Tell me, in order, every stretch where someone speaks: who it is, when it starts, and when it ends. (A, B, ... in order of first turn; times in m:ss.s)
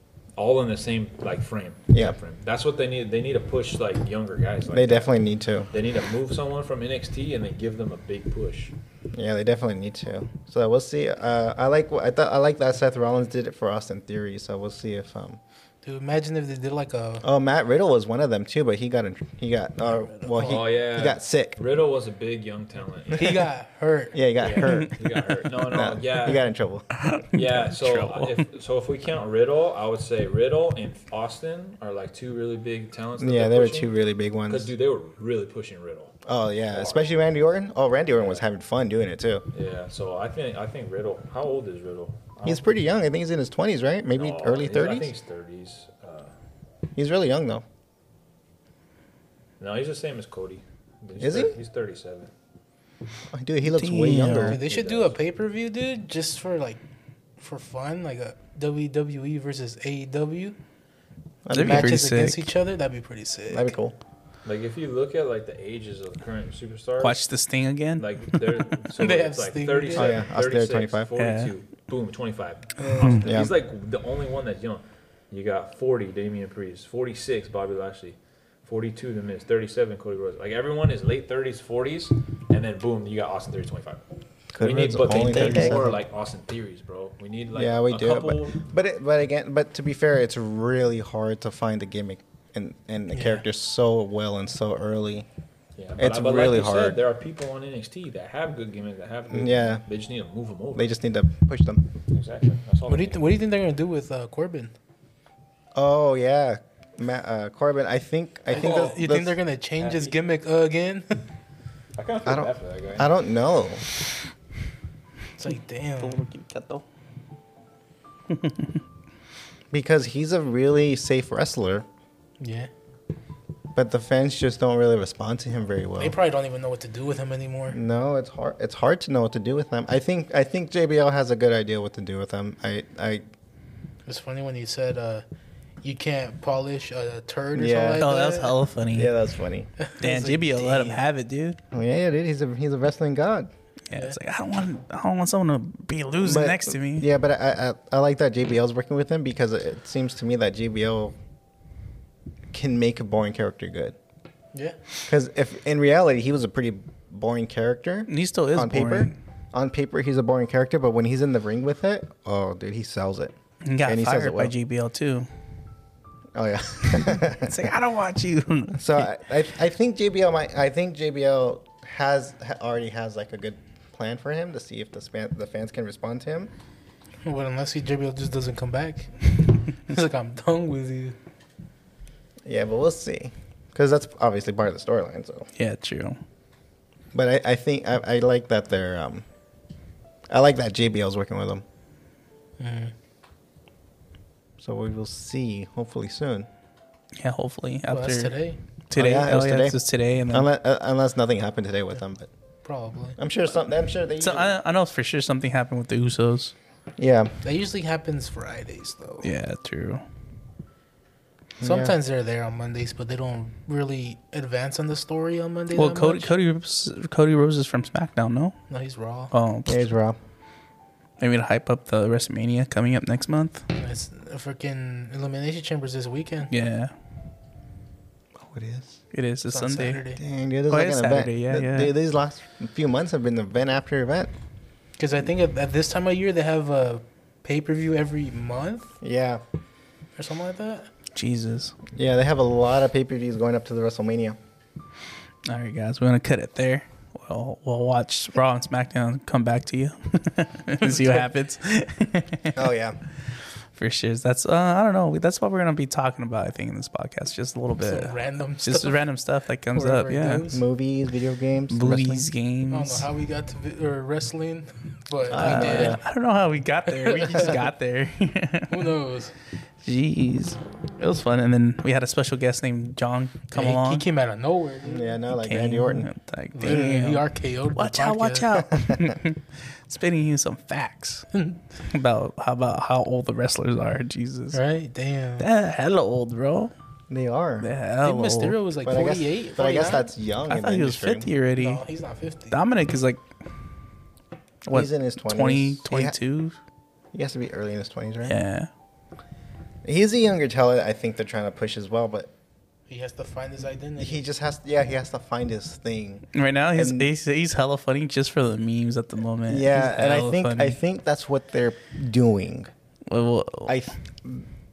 0:00.4-0:05.1 A
0:04.7-0:05.7 B
0:05.7-0:08.7 A
0:09.1-0:15.4 B
0:15.8-0:17.2 C
0:17.2-0:21.6 B
0:20.1-0:20.5 C
0:20.4-0:23.4 A
0:23.1-0:24.2 C
0:24.1-0:25.0 B
0:24.4-0:26.4 A
0:25.7-0:26.9 B
0:26.9-0:28.4 D
0:27.3-0:33.9 A
0:33.2-0:34.7 B
0:34.5-0:36.2 A
0:36.2-0:39.4 B
0:36.7-0:37.0 A
0:38.1-0:38.4 A
0:39.5-0:42.6 A
0:42.4-0:45.1 B
0:44.2-0:46.3 A
0:47.0-0:47.6 B
0:49.6-0:52.3 A
0:51.2-0:51.6 B
0:53.3-0:54.6 B
0:53.6-0:54.6 D
0:54.3-0:56.8 C
0:54.6-0:55.2 A
0:57.4-1:00.6 C
1:01.4-1:02.0 B
1:01.5-1:02.5 D
1:01.5-1:03.7 C
1:03.5-1:04.0 B
1:04.4-1:07.2 A
1:07.0-1:08.1 D
1:08.0-1:24.0 A
1:09.0-1:10.2 C
1:09.9-1:11.1 B
1:11.2-1:11.5 D
1:12.8-1:13.2 C
1:13.0-1:13.5 B
1:13.0-1:13.3 D
1:24.5-1:25.9 B
1:24.6-1:28.7 A
1:25.2-1:25.9 C
1:27.5-1:35.3 B
1:33.1-1:33.4 C
1:35.8-1:40.9 A
1:36.0-1:37.0 B
1:39.3-1:39.8 B
1:40.7-1:41.9 B
1:42.1-1:43.2 A
1:42.9-1:44.7 C
1:45.7-1:49.4 B
1:48.5-1:49.0 A
1:48.5-1:51.2 C
1:49.8-1:50.2 A
1:52.0-1:53.1 A
1:52.2-1:53.8 B
1:55.4-1:56.2 C
1:56.0-1:56.8 D
1:58.3-1:58.8 D
1:59.7-2:01.8 B
2:02.4-2:02.7 C
2:03.7-2:06.2 B
2:06.0-2:07.8 C
2:07.7-2:13.2 B
2:14.0-2:15.2 C
2:15.8-2:18.6 C
2:17.5-2:18.0 B
2:18.0-2:19.1 D
2:18.9-2:19.7 B
2:19.8-2:21.0 C
2:20.0-2:21.6 D
2:21.7-2:23.5 B
2:23.9-2:27.0 D
2:26.2-2:31.2 B
2:32.5-2:34.0 B
2:35.0-2:43.3 B
2:38.1-2:39.1 D
2:43.6-2:45.3 D
2:43.8-2:44.5 B
2:46.3-2:47.7 B
2:46.9-2:49.1 D
2:48.7-2:56.5 B
2:57.2-3:01.2 C
3:02.4-3:05.5 B
3:05.6-3:06.2 D
3:07.1-3:09.2 B
3:10.3-3:11.6 B
3:12.6-3:12.9 C
3:14.6-3:16.5 B
3:17.2-3:18.3 D
3:17.9-3:18.6 C
3:18.9-3:20.5 D
3:18.9-3:19.8 B
3:20.3-3:22.3 B
3:22.6-3:23.2 C
3:23.2-3:24.6 B
3:24.2-3:26.5 D
3:27.0-3:27.3 B
3:27.4-3:29.3 C
3:29.2-3:30.0 D
3:31.6-3:31.9 B
3:31.6-3:36.4 C
3:35.7-3:38.5 D
3:38.7-3:39.3 C
3:39.3-3:39.8 D
3:39.7-3:40.2 B
3:41.2-3:43.6 D
3:43.8-3:46.5 C
3:46.5-3:46.9 D
3:48.4-3:49.0 B
3:49.1-3:50.0 D
3:49.5-3:50.2 C
3:50.2-3:54.3 B
3:50.7-3:51.9 D
3:55.0-3:59.0 C
3:59.0-3:59.4 B
4:00.2-4:00.9 C
4:01.1-4:01.7 D
4:01.9-4:04.4 B
4:05.4-4:12.6 D
4:10.8-4:11.2 C
4:12.5-4:13.0 B
4:13.7-4:20.4 D
4:17.8-4:19.0 C
4:19.7-4:20.6 C
4:20.5-4:22.3 B
4:21.7-4:23.0 D
4:22.7-4:26.0 C
4:25.3-4:26.0 B
4:25.4-4:28.9 D
4:26.9-4:27.6 C
4:28.7-4:29.3 C
4:29.8-4:34.0 D
4:33.5-4:35.2 C
4:34.8-4:36.1 B
4:35.3-4:37.2 D
4:36.5-4:38.5 C
4:37.7-4:41.3 D
4:38.6-4:39.2 B
4:41.3-4:41.6 C
4:41.8-4:44.6 D
4:44.5-4:45.5 C
4:45.4-4:46.7 D
4:47.1-4:47.7 B
4:47.6-4:48.6 D
4:48.0-4:50.1 C
4:48.8-4:51.3 B
4:50.5-4:51.8 D
4:51.6-4:52.6 C
4:52.5-4:53.2 D
4:54.6-4:56.6 D
4:54.7-4:56.1 B
4:57.1-4:58.4 B
4:58.2-4:58.7 D
4:59.8-5:02.3 B
5:02.9-5:04.2 C
5:04.0-5:07.1 B
5:06.3-5:10.8 D
5:09.5-5:12.7 B
5:13.1-5:13.8 D
5:13.7-5:14.5 B